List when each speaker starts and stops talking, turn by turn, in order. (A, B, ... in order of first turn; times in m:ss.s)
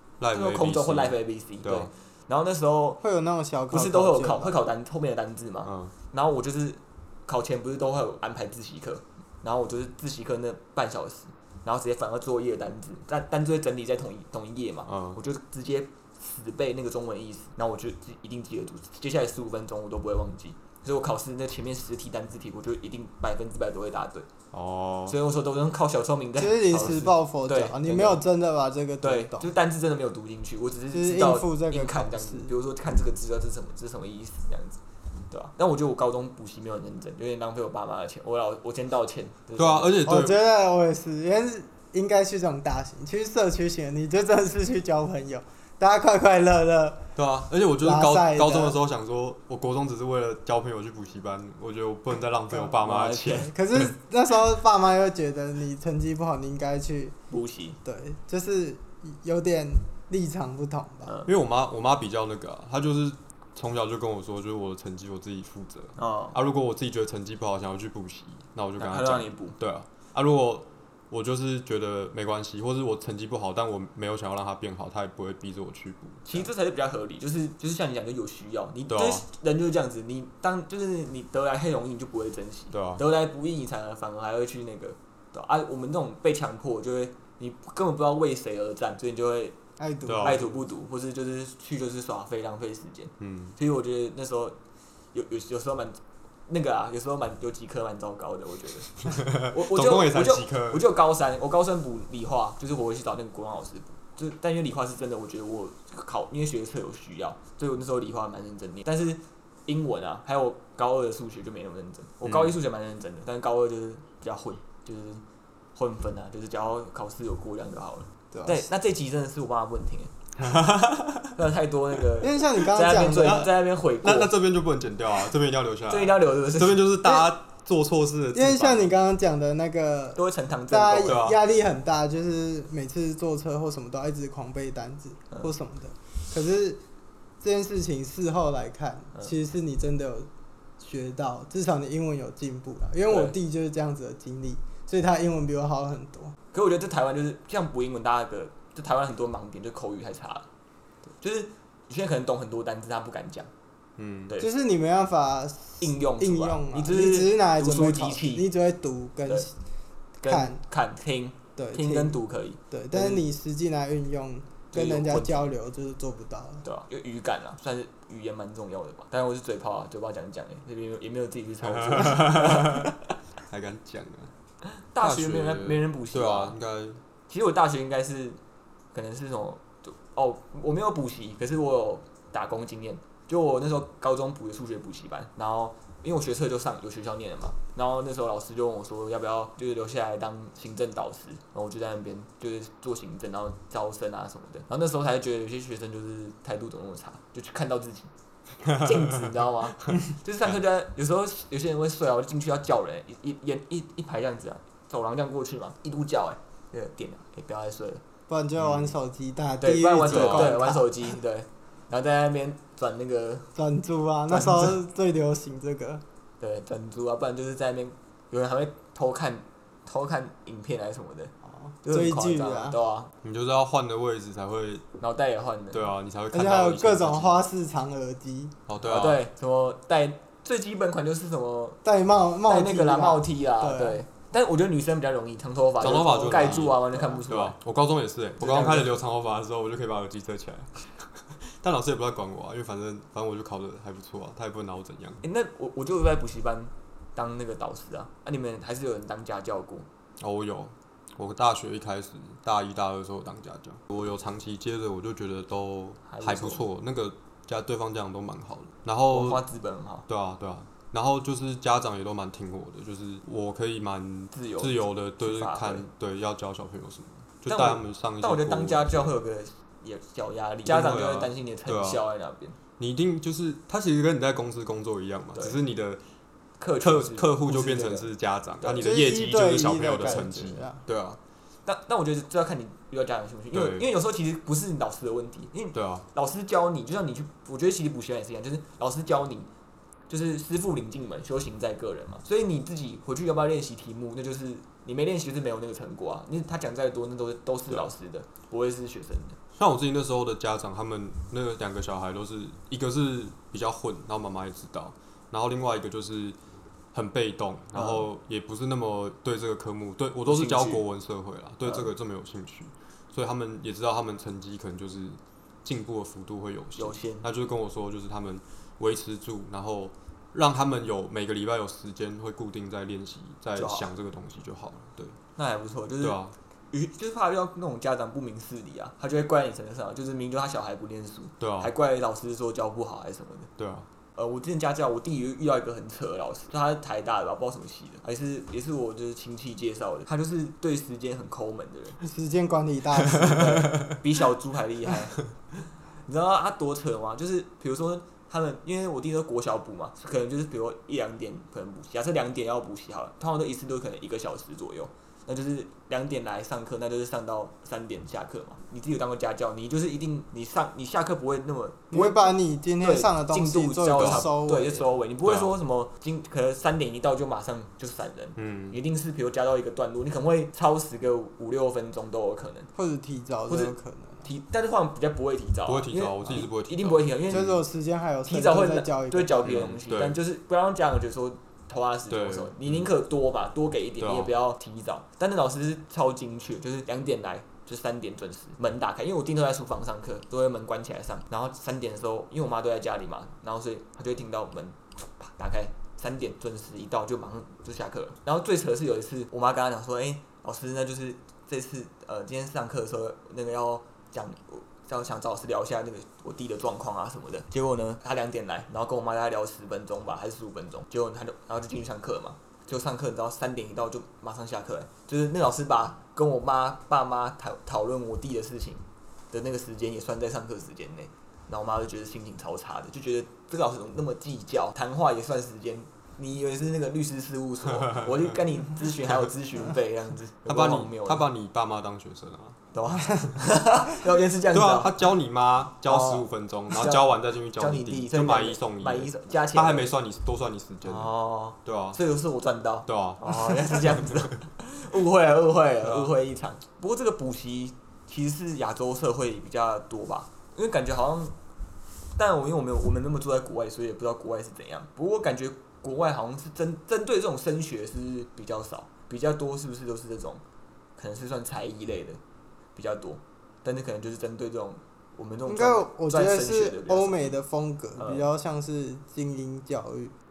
0:00.2-0:01.9 A
0:00.3-0:03.0 B
0:03.0-0:04.6 C
0:03.7-0:24.3 B
0:05.6-0:05.9 A
0:14.9-0:15.2 A
0:24.5-0:25.2 A
0:25.1-0:28.2 B
0:26.4-0:29.5 C
0:29.0-0:34.8 B
0:30.9-0:32.5 C
0:35.3-0:40.0 B
0:39.6-0:40.4 A
0:40.0-0:47.1 C
0:47.2-0:53.9 A
0:47.8-0:48.8 C
0:52.8-0:53.6 B
0:53.4-0:57.2 C
0:57.3-0:57.8 B
0:57.8-1:01.2 C
1:01.0-1:01.3 B
1:01.3-1:16.5 A
1:06.0-1:06.4 B
1:08.8-1:09.6 B
1:16.2-1:29.6 B
1:18.9-1:19.2 A
1:22.7-1:23.0 A
1:29.8-1:30.5 C
1:30.1-1:30.4 A
1:30.2-1:34.6 B
1:33.2-1:33.6 A
1:35.1-1:55.2 B
1:39.0-1:40.9 A
1:52.2-1:52.6 A
1:55.8-2:00.1 B
1:58.3-1:58.7 C
2:00.4-2:01.3 A
2:01.4-2:04.3 B
2:02.2-2:03.5 C
2:03.2-2:09.0 A
2:05.9-2:06.8 B
2:07.0-2:07.3 C
2:08.3-2:16.8 C
2:10.2-2:11.3 B
2:11.1-2:11.4 A
2:17.4-2:20.3 C
2:20.8-2:26.4 C
2:23.1-2:23.4 B
2:26.5-2:30.5 B
2:31.2-2:33.5 B
2:34.0-2:34.3 A
2:34.4-2:39.5 C
2:35.8-2:38.5 B
2:40.2-2:43.3 B
2:40.3-2:40.6 C
2:41.6-2:42.2 C
2:42.7-2:46.6 C
2:44.7-2:45.5 B
2:46.6-2:53.1 B
2:51.6-2:52.9 A
2:53.5-2:54.3 A
2:54.8-2:56.6 B
2:55.0-2:57.0 A
2:57.3-2:58.4 B
2:58.9-3:18.1 B
3:18.6-3:28.0 B
3:18.7-3:19.3 A
3:28.3-3:31.2 C
3:28.6-3:29.0 A
3:29.6-3:33.5 B
3:30.1-3:30.6 A
3:33.6-3:36.0 C
3:34.3-3:34.8 B
3:36.4-3:41.3 B
3:41.6-3:42.8 C
3:41.8-3:43.1 B
3:43.2-3:44.8 A
3:45.0-3:45.9 B
3:45.7-3:47.4 A
3:46.3-3:48.6 C
3:48.7-3:49.2 A
3:48.8-3:51.8 B
3:51.8-3:54.0 C
3:52.5-3:57.6 B
3:55.8-4:00.8 A
3:56.2-3:57.1 C
3:58.4-3:59.0 B
4:01.3-4:05.2 A
4:05.2-4:09.9 B
4:10.2-4:19.4 A
4:16.1-4:16.6 B
4:19.1-4:20.1 B
4:20.1-4:29.2 A
4:24.3-4:25.8 B
4:27.5-4:32.6 B
4:30.6-4:32.0 A
4:32.8-4:36.0 A
4:36.6-4:39.0 B
4:36.8-4:41.2 A
4:38.8-4:40.8 C
4:41.7-4:49.5 B
4:43.5-4:43.9 A
4:45.7-4:46.1 A
4:50.1-4:59.4 B
4:59.6-5:06.4 A
5:06.9-5:25.2 A
5:07.7-5:08.1 B
5:10.3-5:10.8 B
5:11.6-5:11.9 B
5:16.8-5:17.3 B
5:23.6-5:23.9 B
5:25.4-5:26.2 B
5:26.0-5:26.3 A
5:26.7-5:33.5 B
5:31.4-5:31.7 A
5:33.6-5:33.9 A
5:34.2-5:42.0 B
5:42.0-5:43.7 C
5:43.1-5:45.2 B
5:46.1-6:12.7 B
6:01.9-6:04.8 C
6:04.0-6:04.3 A
6:05.2-6:05.6 A
6:08.4-6:08.8 A
6:12.8-6:14.3 C
6:13.5-6:17.6 B
6:15.7-6:17.6 A
6:17.3-6:19.5 C
6:18.3-7:11.2 B
6:19.4-6:20.2 A
6:22.1-6:22.9 A
6:24.0-6:24.3 A
7:07.8-7:08.4 A
7:10.5-7:12.6 A
7:12.7-7:14.9 B
7:14.5-7:21.1 A
7:15.8-7:19.9 B
7:20.8-7:31.4 B
7:21.6-7:22.0 A
7:22.9-7:24.4 A
7:25.8-7:26.1 A
7:32.2-7:40.4 B
7:41.0-7:42.2 B
7:42.8-7:47.4 B
7:45.5-7:50.2 C
7:48.0-7:48.3 B